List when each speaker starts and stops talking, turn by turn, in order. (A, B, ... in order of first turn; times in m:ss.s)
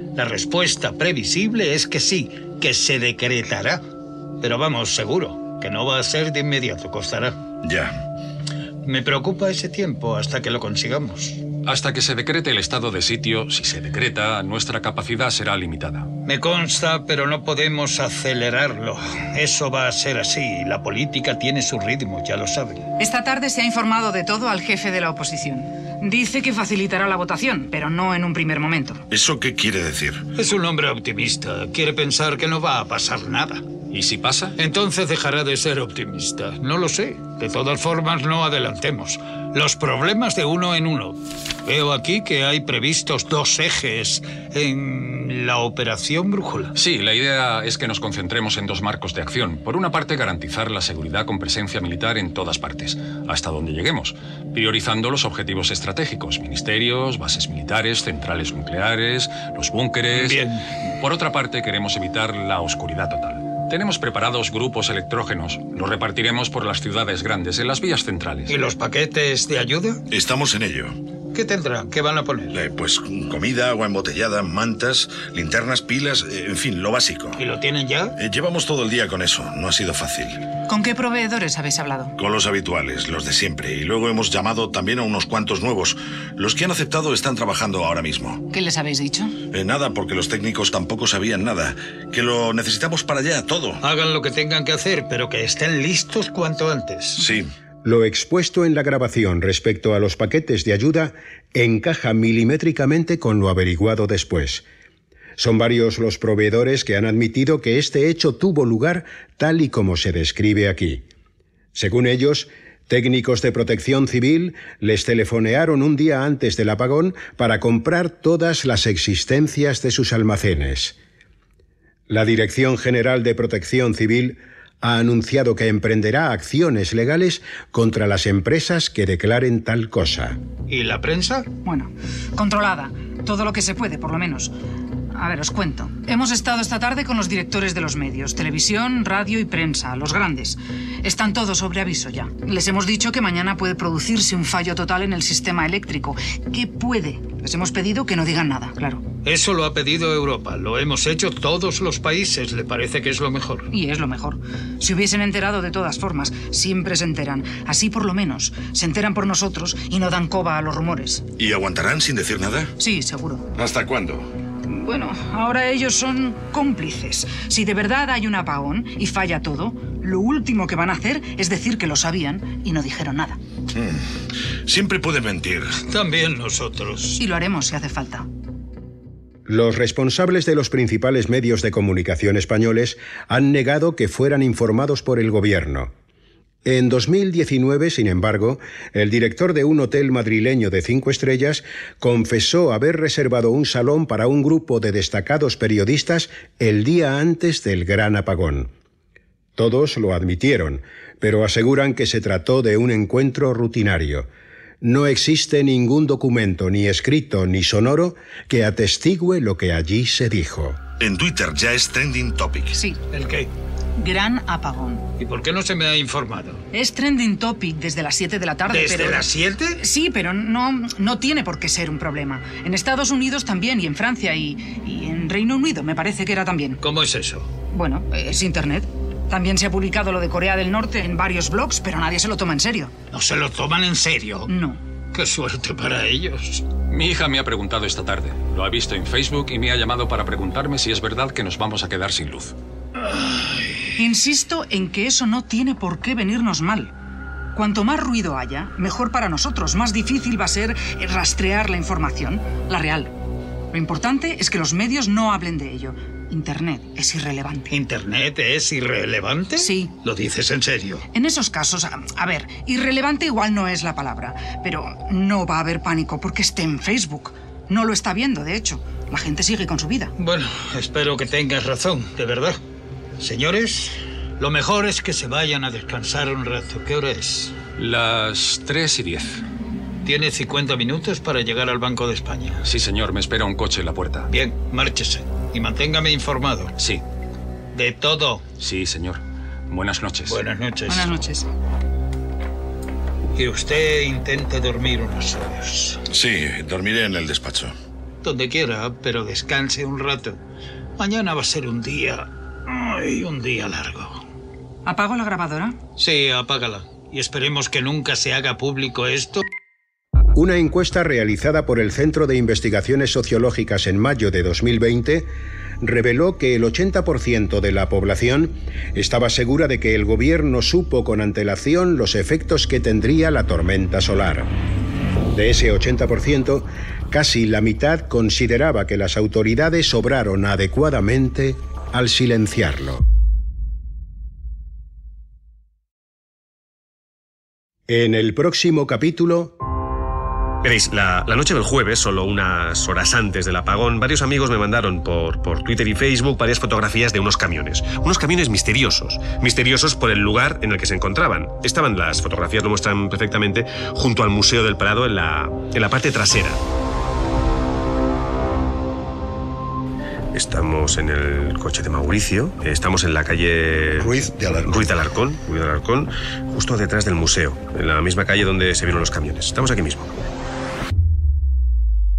0:00.1-0:03.8 A
0:04.4-0:07.4 A
0:07.6-0:08.0 B
0:08.8-0:11.4 A
0:11.6-0:16.1 C
0:16.2-0:22.8 A
0:23.0-0:29.0 D
0:29.1-0:30.3 B
0:30.4-0:33.6 A
0:33.9-0:34.5 C
0:34.6-0:46.7 A
0:46.7-1:08.5 C
1:00.1-1:00.7 A
1:08.5-1:10.0 A
1:10.1-1:11.0 B
1:11.3-1:12.6 A
1:12.5-1:17.4 B
1:17.4-1:18.2 A
1:18.2-1:20.4 B
1:20.7-1:22.1 D
1:22.2-1:28.4 B
1:28.5-1:29.3 D
1:29.5-1:33.8 B
1:33.8-1:37.2 A
1:37.2-1:37.5 B
1:37.8-1:44.7 E
1:45.4-1:51.0 E
1:51.7-2:01.0 E
2:02.1-2:10.4 E
2:10.7-2:11.5 A
2:11.6-2:14.5 D
2:15.1-2:29.0 D
2:29.2-2:33.7 A
2:33.7-2:41.2 D
2:41.4-2:42.7 B
2:42.8-2:43.4 D
2:43.6-2:44.3 B
2:44.6-2:53.4 D
2:53.7-2:54.0 B
2:54.7-2:55.8 B
2:55.9-2:57.2 A
2:57.2-2:58.3 D
2:59.5-3:05.9 E
3:06.6-3:18.7 E
3:19.6-3:24.3 E
3:24.8-3:30.8 E
3:31.0-3:32.8 B
3:32.7-3:33.0 D
3:33.1-3:33.5 A
3:34.0-3:35.1 D
3:35.2-3:36.6 A
3:36.7-3:39.2 D
3:38.7-3:39.8 A
3:39.8-3:46.8 D
3:46.8-3:47.5 A
3:47.7-3:52.9 D
3:53.1-3:54.5 A
3:54.4-3:54.8 D
3:55.1-3:56.7 A
3:56.9-4:02.5 C
4:03.0-4:03.7 A
4:04.0-4:06.9 D
4:07.5-4:13.2 D
4:13.7-4:17.7 D
4:17.7-4:21.1 A
4:19.6-4:19.9 D
4:21.1-4:30.1 D
4:30.2-4:32.6 A
4:33.2-4:37.6 A
4:37.8-4:39.4 C
4:40.0-4:42.6 A
4:42.6-4:44.3 C
4:44.3-4:46.7 A
4:47.7-4:48.4 A
4:48.6-4:50.4 C
4:50.2-4:51.1 A
4:50.9-4:51.5 D
4:53.3-4:56.0 A
4:56.1-4:57.7 B
4:58.2-5:00.4 A
5:01.0-5:04.2 A
5:04.8-5:05.8 D
5:06.0-5:09.4 A
5:10.3-5:15.3 E
5:15.8-5:24.5 E
5:25.3-5:33.1 E
5:37.9-5:39.6 E
5:40.6-5:56.6 F
6:00.3-6:10.2 F